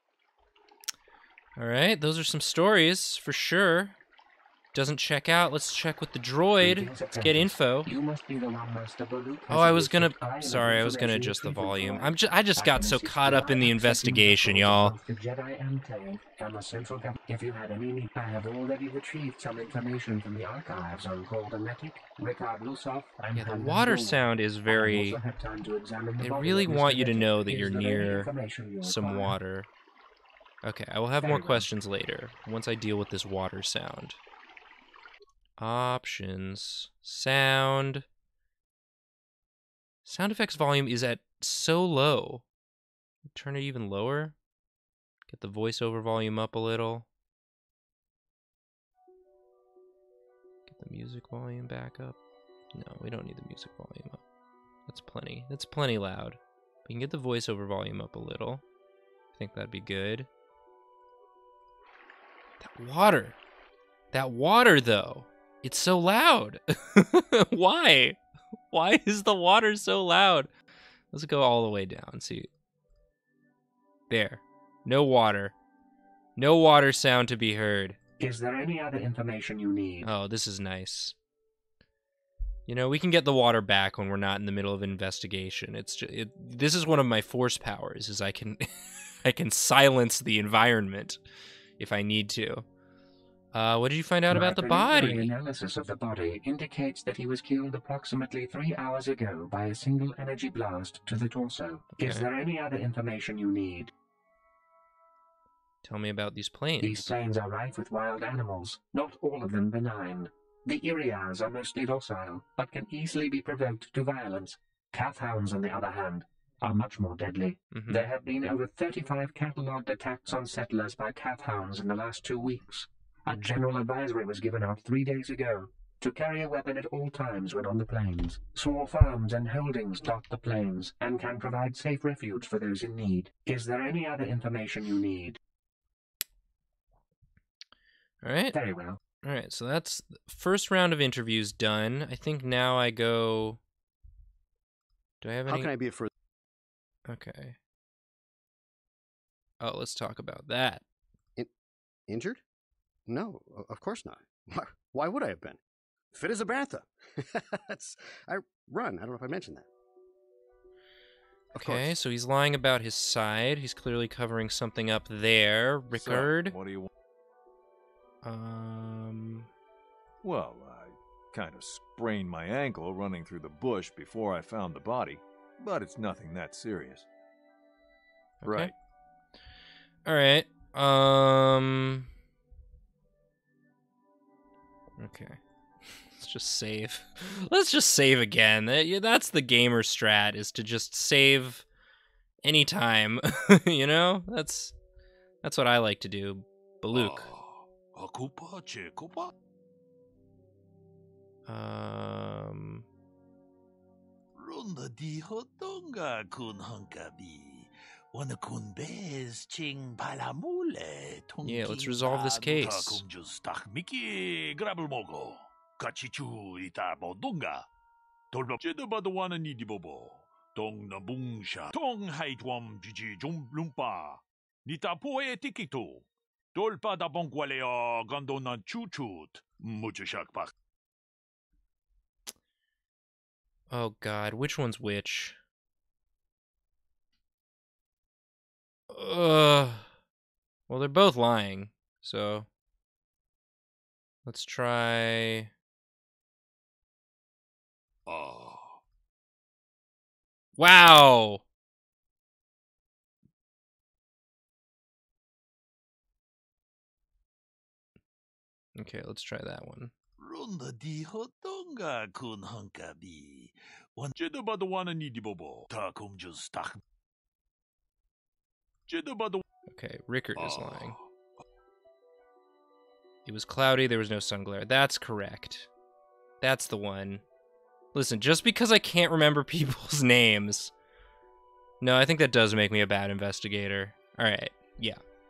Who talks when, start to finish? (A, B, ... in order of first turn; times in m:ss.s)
0:01.6-0:04.0 A
0:04.7-0:07.9 A
0:06.6-0:29.4 B
0:09.5-0:15.0 A
0:23.3-0:25.2 A
0:26.2-0:28.3 A
0:28.8-0:29.7 A
0:30.6-0:34.2 A
0:31.2-0:31.7 B
0:35.6-0:38.0 A
0:40.0-0:42.4 A
0:43.3-0:44.4 A
0:45.3-0:47.1 A
0:50.7-0:52.2 A
0:52.7-0:54.2 A
0:54.9-0:58.6 A
0:59.4-1:00.3 A
1:02.6-1:03.4 A
1:04.1-1:08.2 A
1:08.7-1:10.5 A
1:11.1-1:12.5 A
1:14.1-1:15.5 A
1:16.4-1:18.0 A
1:18.2-1:20.1 B
1:20.0-1:21.2 A
1:22.7-1:31.2 A
1:31.8-1:32.6 A
1:33.5-1:35.3 A
1:34.3-1:43.9 B
1:41.9-1:42.3 A
1:45.8-1:47.1 A
1:46.8-2:15.4 B
1:57.7-1:58.0 A
2:18.2-2:18.6 A
2:18.5-2:19.0 B
2:19.2-2:23.6 A
2:25.2-2:25.7 A
2:25.5-2:26.1 C
2:27.0-2:27.6 A
2:29.6-2:30.8 A
2:32.1-2:32.4 C
2:33.1-2:35.6 C
2:36.1-2:39.7 C
2:41.5-2:41.9 C
2:41.6-2:46.6 A
2:45.9-2:46.9 D
2:48.2-2:49.5 A
2:50.2-2:57.0 D
2:58.4-2:58.7 A
2:58.4-2:58.7 D
3:00.0-3:02.1 A
3:05.0-3:11.6 A
3:12.4-3:14.7 A
3:15.4-3:17.3 A
3:16.9-3:19.3 E
3:21.5-3:22.8 A
3:24.3-3:37.7 E
3:31.4-3:33.0 A
3:38.3-3:50.5 E
3:53.7-3:55.4 A
3:58.9-3:59.9 A
4:00.7-4:02.5 A
4:04.2-4:05.5 A
4:08.0-4:08.8 E
4:10.6-4:11.4 A
4:18.7-4:19.9 A
4:20.2-4:26.8 E
4:28.9-4:29.4 E
4:29.7-4:31.0 A
4:30.4-4:31.0 E
4:33.2-4:35.7 A
4:36.4-4:37.2 A
4:37.9-4:40.7 A
4:41.8-4:45.0 A